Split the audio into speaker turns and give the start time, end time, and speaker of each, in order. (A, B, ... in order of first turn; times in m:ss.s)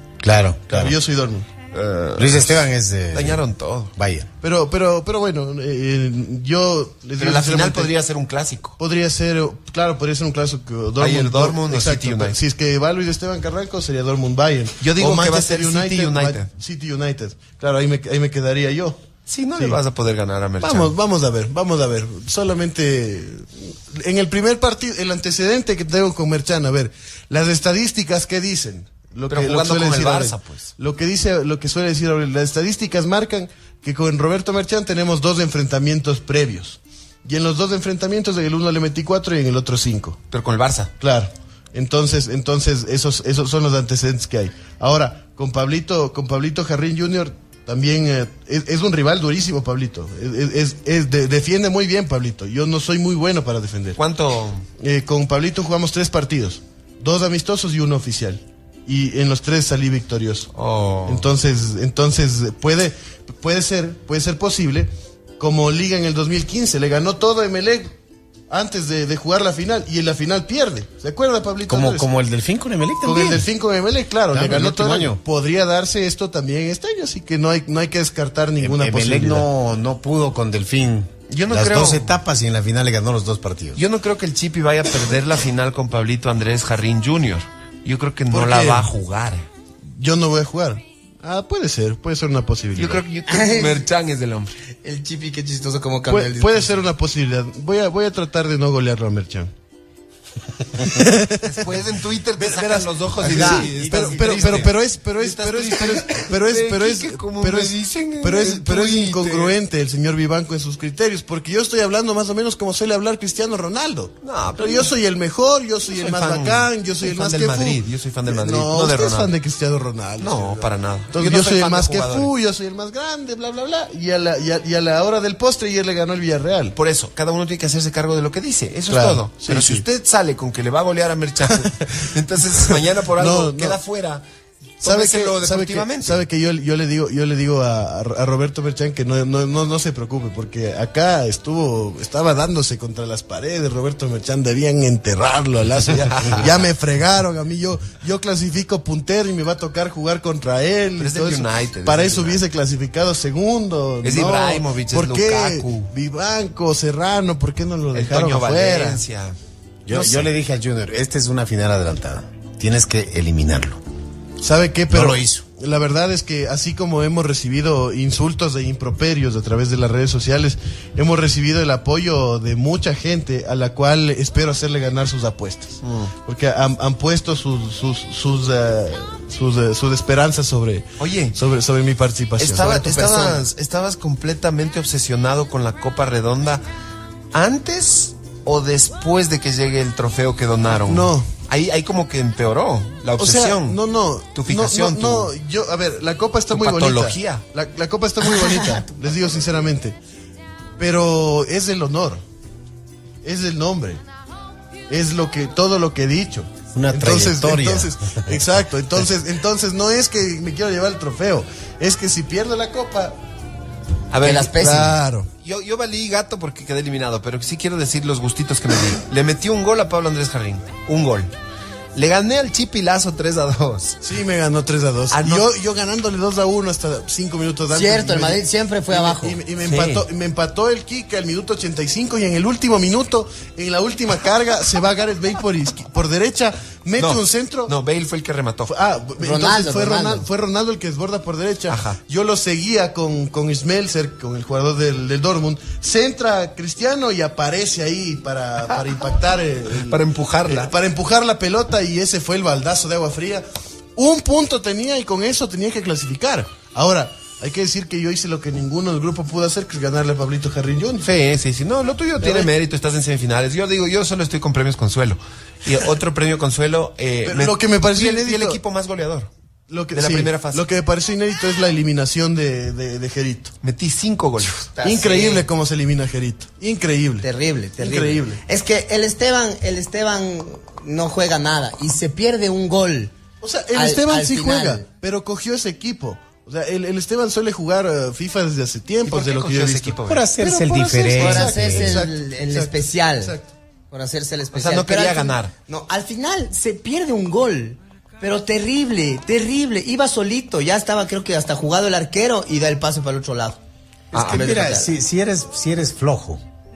0:00.2-0:01.0 A
0:00.7-0:01.5 B
0:01.7-0:04.0 C
0:02.2-0:03.4 A
0:04.0-0:04.3 A
0:04.4-0:08.0 B
0:07.2-0:08.8 C
0:08.8-0:19.0 B
0:11.0-0:12.4 C
0:14.8-0:16.5 C
0:19.3-0:20.9 C
0:20.6-0:40.2 B
0:29.3-0:30.7 C
0:40.3-0:40.9 C
0:41.0-0:54.0 B
0:54.0-0:54.7 C
0:54.8-1:00.5 B
1:00.6-1:01.3 C
1:01.1-1:07.9 B
1:08.5-1:12.1 B
1:11.7-1:13.4 A
1:13.0-1:19.5 B
1:14.3-1:15.2 A
1:18.6-1:23.8 A
1:21.3-1:22.2 C
1:23.8-1:29.5 C
1:28.3-1:28.9 B
1:29.9-1:33.0 B
1:32.8-1:34.6 C
1:33.3-1:33.8 D
1:34.8-1:36.8 D
1:36.1-1:39.5 B
1:40.8-1:41.8 B
1:41.4-1:49.5 C
1:42.4-2:06.8 B
1:43.2-1:44.7 D
1:54.2-1:54.9 C
1:55.9-1:59.3 C
2:00.2-2:02.3 C
2:06.8-2:14.2 C
2:08.9-2:09.8 B
2:11.5-2:11.9 B
2:12.4-2:13.8 B
2:14.8-2:16.2 C
2:14.8-2:39.0 B
2:25.9-2:26.5 C
2:31.0-2:32.4 C
2:34.0-2:35.9 C
2:37.9-2:40.3 C
2:39.9-2:43.8 A
2:44.4-3:03.4 B
2:44.9-2:45.4 A
2:55.8-2:56.1 C
3:01.0-3:01.4 C
3:02.4-3:06.6 C
3:07.3-3:13.8 C
3:10.7-3:11.3 B
3:13.2-3:20.0 B
3:14.3-3:15.3 C
3:16.5-3:17.4 C
3:20.8-3:22.2 B
3:23.2-3:24.0 B
3:24.9-3:33.2 B
3:26.7-3:28.4 A
3:34.1-3:34.5 C
3:34.2-3:35.0 D
3:34.5-3:35.3 B
3:35.4-3:41.3 C
3:41.9-3:44.0 C
3:44.0-3:57.7 B
3:45.1-3:45.5 C
3:47.7-3:49.4 D
3:49.6-3:50.0 C
3:57.0-3:58.7 C
3:58.7-4:21.1 B
3:59.2-4:00.3 D
4:01.7-4:02.0 C
4:09.9-4:10.7 C
4:21.0-4:29.3 C
4:22.2-4:22.5 B
4:27.2-4:28.6 B
4:29.7-4:33.6 B
4:29.9-4:30.6 C
4:33.6-4:34.6 C
4:34.8-4:35.4 D
4:34.8-4:37.3 B
4:37.2-4:43.1 D
4:37.8-4:38.4 B
4:43.4-4:53.5 B
4:43.7-4:44.8 D
4:49.1-4:50.2 C
4:50.1-4:52.0 A
4:51.2-4:53.4 D
4:53.9-5:03.6 D
4:54.5-4:55.5 C
5:04.1-5:06.4 A
5:04.1-5:04.6 C
5:04.2-5:04.9 D